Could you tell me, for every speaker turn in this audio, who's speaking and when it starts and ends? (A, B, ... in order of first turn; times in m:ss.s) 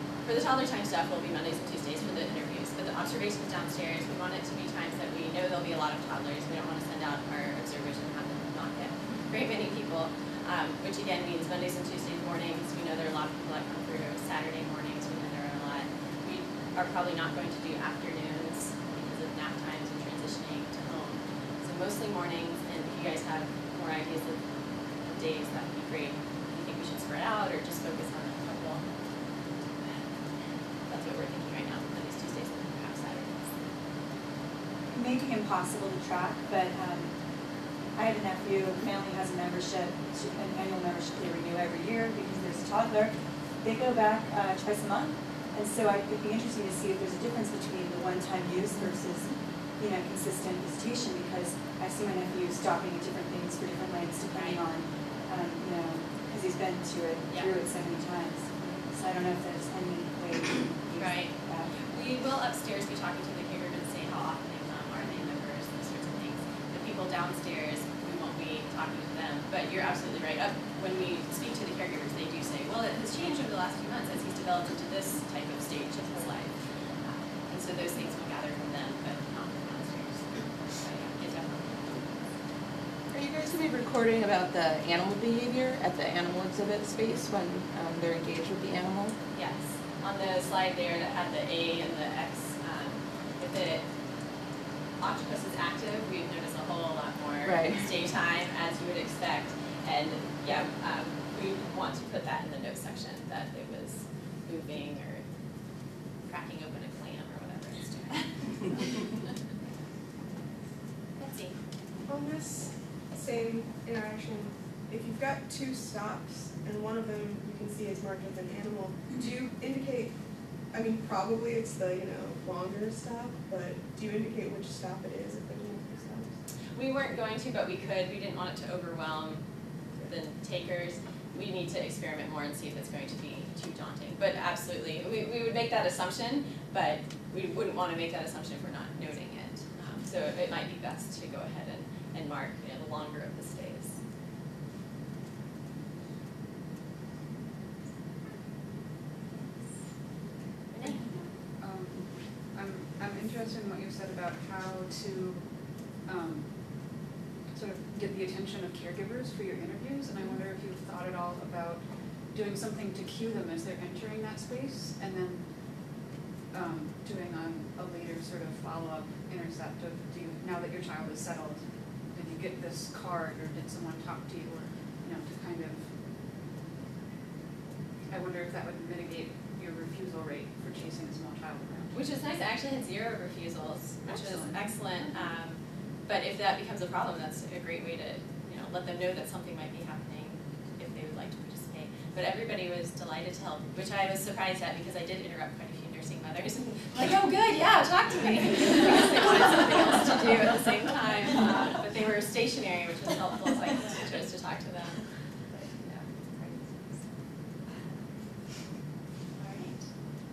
0:00.2-0:24.4 A
0:25.0-0:28.8 A
0:30.9-0:33.5 A
0:34.9-0:37.1 B
0:38.0-1:01.7 B
0:54.3-0:54.6 A
1:01.0-1:22.0 A
1:23.1-1:29.1 C
1:29.3-1:33.8 A
1:35.0-1:45.2 A
1:46.3-1:49.1 A
1:51.2-1:51.6 A
1:52.1-2:00.2 D
2:00.7-2:06.4 D
2:06.7-2:09.4 A
2:10.0-2:24.0 A
2:30.7-2:31.1 A
2:30.9-2:35.5 E
2:36.0-2:45.5 E
2:46.5-2:55.9 E
2:58.1-3:01.9 E
3:01.9-3:26.7 A
3:04.1-3:04.6 E
3:29.3-3:29.9 A